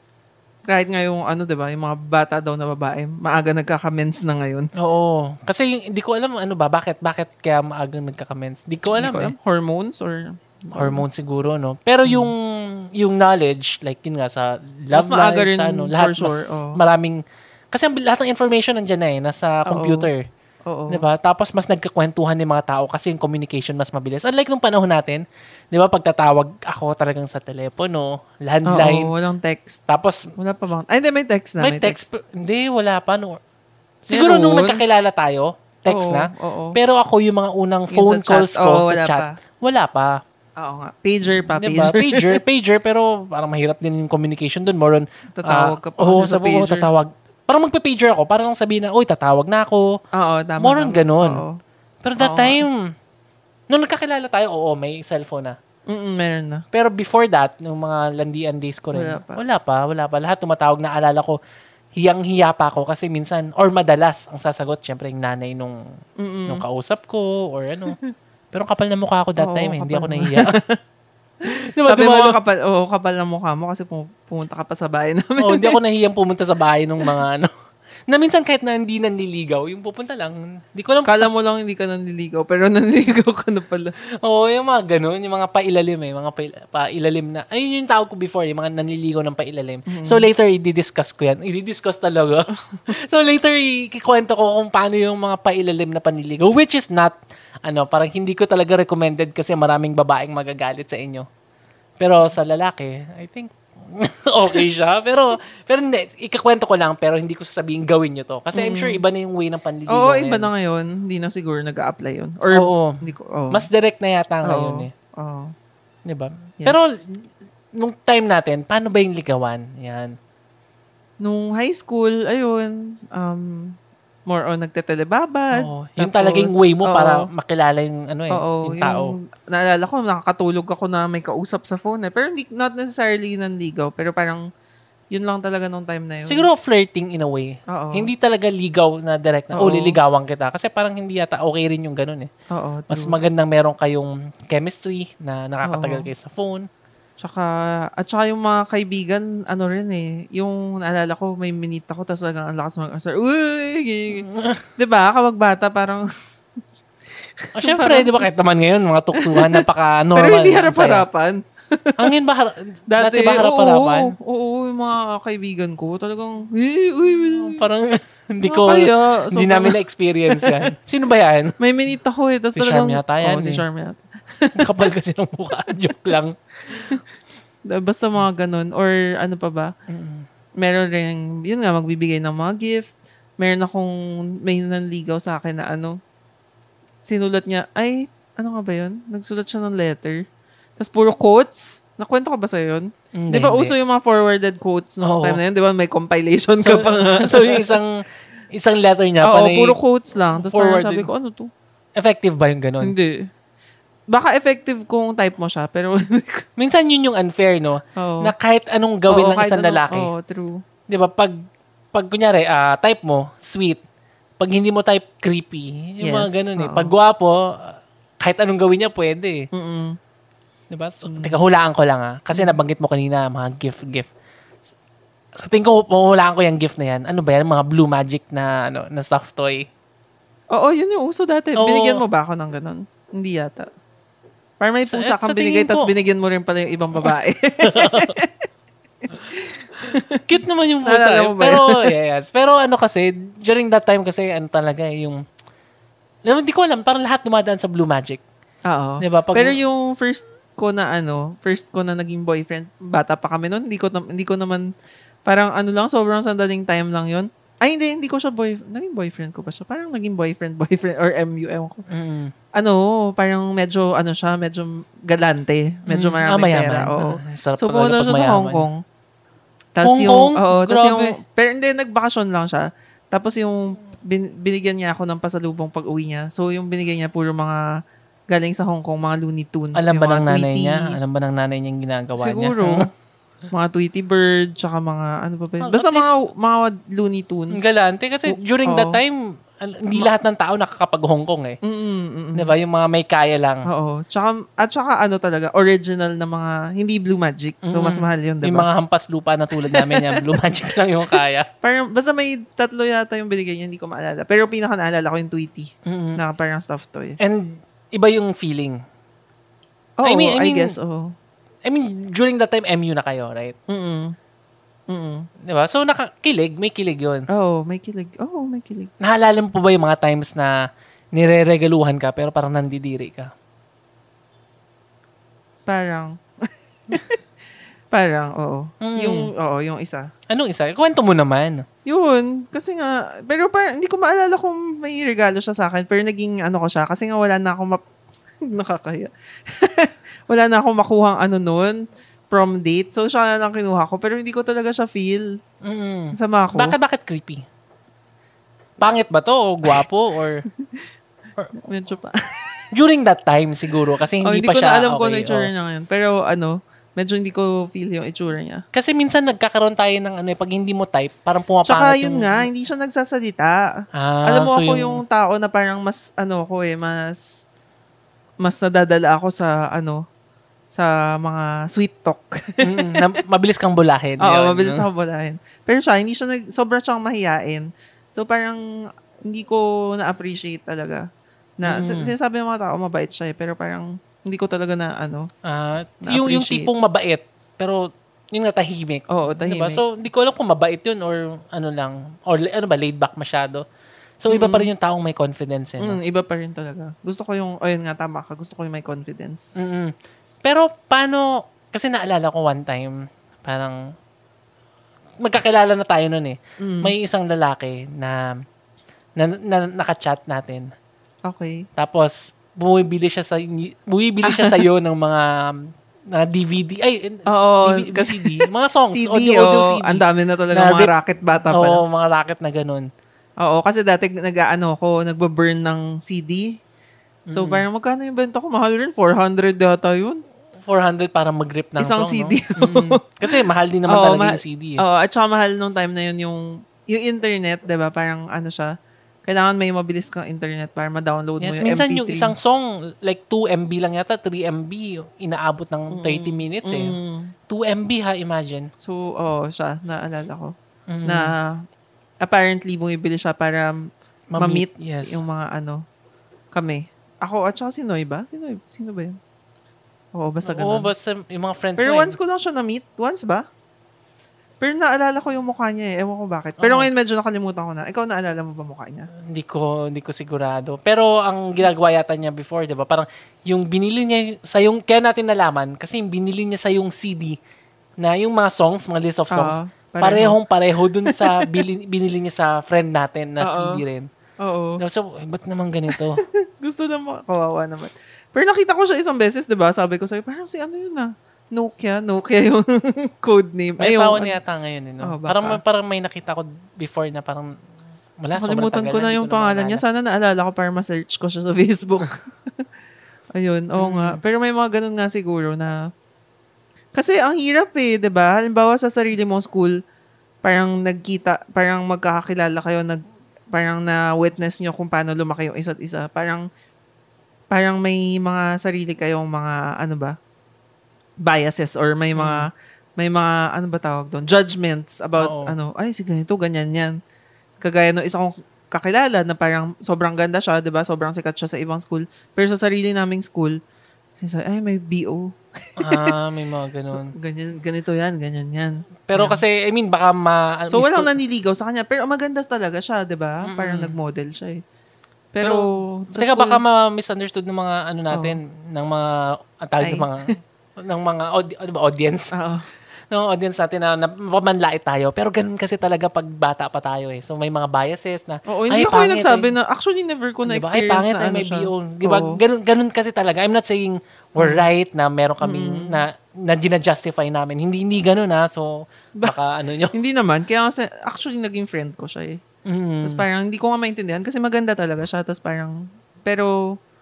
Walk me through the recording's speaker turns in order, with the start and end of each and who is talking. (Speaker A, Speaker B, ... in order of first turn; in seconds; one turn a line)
Speaker A: 0.7-4.7
Speaker B: 4.8-9.3
Speaker A: 8.9-11.0
Speaker B: 10.7-17.2
Speaker A: 12.0-12.3
Speaker A: 14.9-16.8
Speaker B: 17.7-20.2
Speaker A: 19.7-20.1
Speaker A: 20.6-21.0
Speaker B: 20.9-29.1
Speaker A: 28.7-29.8
Speaker B: 29.9-30.3
Speaker A: 30.4-32.0
Speaker B: 31.6-33.4
Speaker B: 34.1-40.2
Speaker A: 34.1-34.8
Speaker A: 35.9-36.8
Speaker A: 37.9-39.4
Speaker A: 40.6-42.4
Speaker B: 41.6-49.9
Speaker A: 45.4-46.9
Speaker A: 50.1-51.6
Speaker B: 50.6-51.4
Speaker B: 52.0-52.8
Speaker A: 52.2-52.6
Speaker B: 53.7-55.5
Speaker A: 55.9-56.6
Speaker B: 56.7-61.4
Speaker A: 58.9-59.4
Speaker B: 62.0-65.8
Speaker A: 66.2-66.6
Speaker B: 66.5-68.0
Speaker B: 68.5-70.5
Speaker A: 69.4-70.8
Speaker B: 71.7-72.4
Speaker A: 71.8-75.8
Speaker B: 75.4-77.5
Speaker B: 78.1-81.3
Speaker A: 81.0-83.9
Speaker B: 84.2-101.3
Speaker A: 89.9-90.3
Speaker B: 102.0-110.5
Speaker A: 108.5-109.0
Speaker A: 109.9-113.6
Speaker B: 112.5-113.0
Speaker B: 113.5-114.9
Speaker A: 114.4-115.5
Speaker B: 116.0-120.1
Speaker A: 121.2-123.7
Speaker A: 124.3-127.2
Speaker B: 125.5-129.1
Speaker A: 128.3-134.4
Speaker A: 135.1-136.4
Speaker B: 136.2-142.3
Speaker A: 137.7-138.1
Speaker A: 139.5-140.0
Speaker A: 142.5-143.2
Speaker B: 142.9-146.7
Speaker A: 145.7-146.1
Speaker A: 147.2-154.2
Speaker B: 154.1-154.6
Speaker A: 154.8-156.1
Speaker A: 157.4-158.2
Speaker B: 157.5-161.0
Speaker A: 159.2-162.1
Speaker B: 162.0-164.1
Speaker A: 162.9-167.6
Speaker B: 167.3-171.6
Speaker A: 168.4-170.6
Speaker A: 171.6-174.8
Speaker B: 172.6-173.6
Speaker B: 174.6-177.0
Speaker A: 176.7-177.0
Speaker A: 177.7-179.7
Speaker B: 179.9-180.2
Speaker A: 180.6-186.0
Speaker A: 187.0-190.2
Speaker A: 190.8-197.8
Speaker B: 193.2-193.7
Speaker B: 195.0-195.4
Speaker B: 196.6-199.8
Speaker A: 199.2-201.5
Speaker B: 200.3-201.1
Speaker B: 202.0-202.9
Speaker A: 202.8-203.3
Speaker A: 204.1-206.4
Speaker B: 206.6-210.1
Speaker A: 207.9-208.3
Speaker A: 209.1-210.6
Speaker B: 210.9-211.4
Speaker B: 211.9-213.8
Speaker B: 214.4-219.5
Speaker A: 216.0-216.9
Speaker A: 219.5-220.0
Speaker B: 220.7-224.1
Speaker A: 221.0-221.4
Speaker B: 225.4-229.7
Speaker A: 230.5-233.7
Speaker B: 231.6-232.0
Speaker A: 234.6-238.3
Speaker B: 234.9-235.9
Speaker B: 237.6-238.2
Speaker A: 239.1-240.2
Speaker B: 240.3-245.2
Speaker A: 240.8-241.9
Speaker B: 246.3-248.2
Speaker A: 248.7-254.7
Speaker B: 249.0-249.6
Speaker A: 255.2-261.8
Speaker B: 261.9-262.3
Speaker A: 262.6-268.8
Speaker B: 265.9-268.7
Speaker A: 269.8-277.6
Speaker B: 269.8-271.1
Speaker A: 278.3-281.0
Speaker B: 279.7-282.9
Speaker A: 282.2-282.9
Speaker A: 283.5-287.7
Speaker B: 285.6-286.1
Speaker B: 287.5-291.6
Speaker A: 288.3-289.0
Speaker A: 291.6-292.5
Speaker B: 292.3-293.7
Speaker A: 293.7-298.7
Speaker B: 297.6-301.5
Speaker A: 299.7-300.4
Speaker A: 301.1-307.2
Speaker B: 305.9-306.2
Speaker B: 307.2-308.8
Speaker A: 310.0-311.1
Speaker B: 310.0-310.7
Speaker B: 311.6-313.5
Speaker A: 313.7-314.1
Speaker A: 314.9-315.2
Speaker B: 315.5-317.2
Speaker A: 317.3-318.9
Speaker B: 319.0-320.5
Speaker B: 321.1-323.3
Speaker A: 325.7-327.2
Speaker A: 327.9-330.1
Speaker B: 328.8-329.3
Speaker B: 330.3-331.6
Speaker A: 331.9-337.8
Speaker A: 338.4-345.3
Speaker B: 345.6-347.4
Speaker A: 346.1-346.8
Speaker B: 348.8-350.4
Speaker A: 351.6-352.7
Speaker B: 352.7-355.5
Speaker A: 354.2-358.6
Speaker B: 358.7-362.4
Speaker A: 361.6-363.7
Speaker B: 363.9-365.0
Speaker A: 364.3-367.2
Speaker A: 368.4-370.0
Speaker A: 370.7-373.0
Speaker B: 372.6-374.9
Speaker A: 374.2-378.6
Speaker A: 379.3-381.0
Speaker A: 381.6-385.3
Speaker B: 381.6-382.1
Speaker B: 385.4-393.6
Speaker A: 386.0-386.7
Speaker A: 389.1-389.8
Speaker B: 394.2-396.0
Speaker A: 394.3-394.7
Speaker A: 395.8-399.5
Speaker B: 399.6-399.9
Speaker B: 400.4-403.8
Speaker B: 405.2-408.3
Speaker A: 406.6-406.9
Speaker B: 409.2-410.7
Speaker A: 411.2-411.6
Speaker B: 411.8-415.6
Speaker A: 414.2-414.6
Speaker B: 416.1-420.0
Speaker A: 417.3-421.8
Speaker B: 420.5-420.9
Speaker B: 421.5-422.9
Speaker A: 423.4-426.5
Speaker B: 427.3-427.6
Speaker A: 427.3-430.2
Speaker B: 430.7-434.8
Speaker A: 431.8-438.7
Speaker A: 439.2-442.3
Speaker B: 441.4-446.9
Speaker A: 445.9-447.3
Speaker B: 447.5-448.7
Speaker A: 448.8-450.5
Speaker B: 450.9-451.3
Speaker A: 451.1-451.6
Speaker A: 452.2-453.8
Speaker B: 454.3-455.2
Speaker A: 454.4-455.8
Speaker A: 456.5-459.2
Speaker A: 460.1-460.9
Speaker B: 460.4-462.1
Speaker A: 461.8-463.4
Speaker A: 464.6-469.1
Speaker B: 466.6-466.9
Speaker B: 469.3-477.4
Speaker B: 478.0-484.1
Speaker A: 479.3-480.4
Speaker A: 481.0-481.6
Speaker A: 483.4-483.8
Speaker A: 484.4-484.8
Speaker B: 484.8-486.2
Speaker A: 485.9-494.3
Speaker B: 493.8-497.5
Speaker A: 495.0-495.6
Speaker B: 498.2-499.8
Speaker A: 498.4-502.6
Speaker A: 503.4-505.8
Speaker B: 503.8-504.2
Speaker A: 506.9-509.7
Speaker A: 510.4-513.0
Speaker A: 513.5-516.4
Speaker A: 517.5-520.1
Speaker A: 521.2-526.9
Speaker B: 522.1-522.5
Speaker B: 525.2-525.5
Speaker A: 527.6-533.5
Speaker A: 534.2-536.1
Speaker B: 535.8-537.1
Speaker A: 537.1-539.4
Speaker B: 539.1-541.1
Speaker A: 540.7-544.6
Speaker B: 543.4-543.9
Speaker A: 545.3-546.6
Speaker B: 545.4-552.3
Speaker A: 548.1-548.4
Speaker A: 549.8-550.3
Speaker A: 552.3-552.6
Speaker B: 553.1-559.5
Speaker A: 558.5-562.4
Speaker B: 560.5-570.0
Speaker A: 564.4-564.7
Speaker A: 565.4-566.0
Speaker A: 569.9-572.4
Speaker B: 572.6-573.2
Speaker A: 573.0-576.8